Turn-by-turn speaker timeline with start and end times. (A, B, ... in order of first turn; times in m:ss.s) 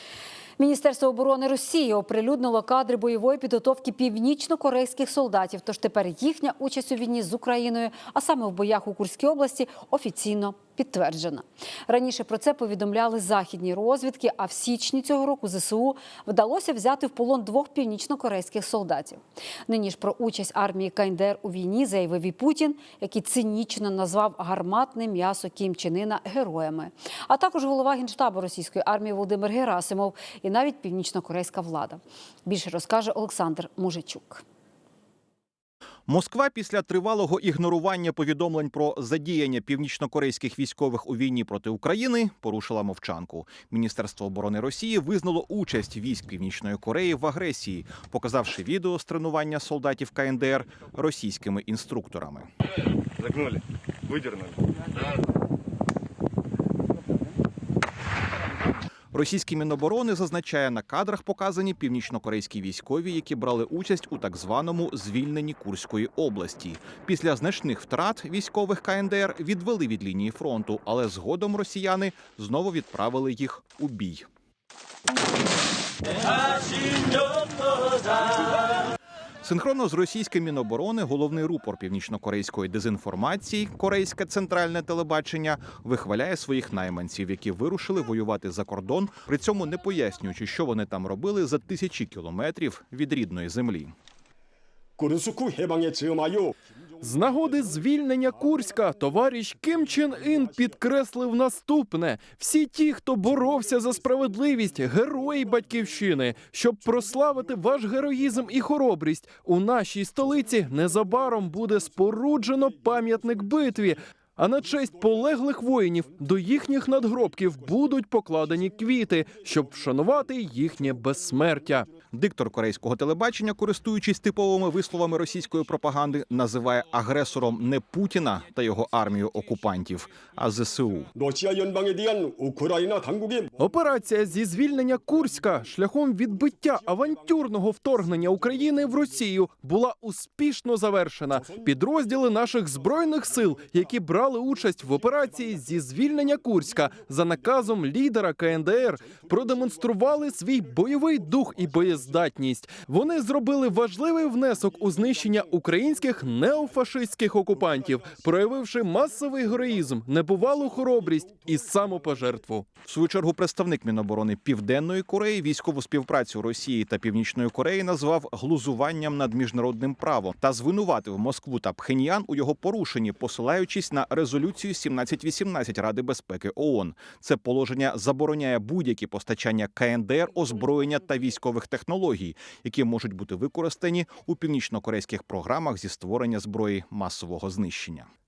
0:00.6-0:34.4 A
0:36.1-0:52.5 B
0:53.2-0:53.4 C
0:54.1-0:54.4 C
0:59.1-1:14.3 B
1:19.4-1:33.9 B
1:35.0-1:37.8 C
1:37.0-2:01.9 D
1:38.4-1:39.1 C
1:39.6-1:40.8 C
1:43.3-1:48.6 C
1:50.3-1:54.0 C
1:54.6-1:55.4 C
1:56.2-2:00.2 C
2:01.1-2:01.8 C
2:02.1-2:11.1 B
2:11.2-2:13.5 C
2:13.6-2:42.7 D
2:14.3-2:15.7 C
2:16.3-2:19.3 C
2:21.4-2:24.0 C
2:24.5-2:27.8 C
2:28.5-2:32.3 C
2:33.7-2:42.4 C
2:42.8-3:08.1 B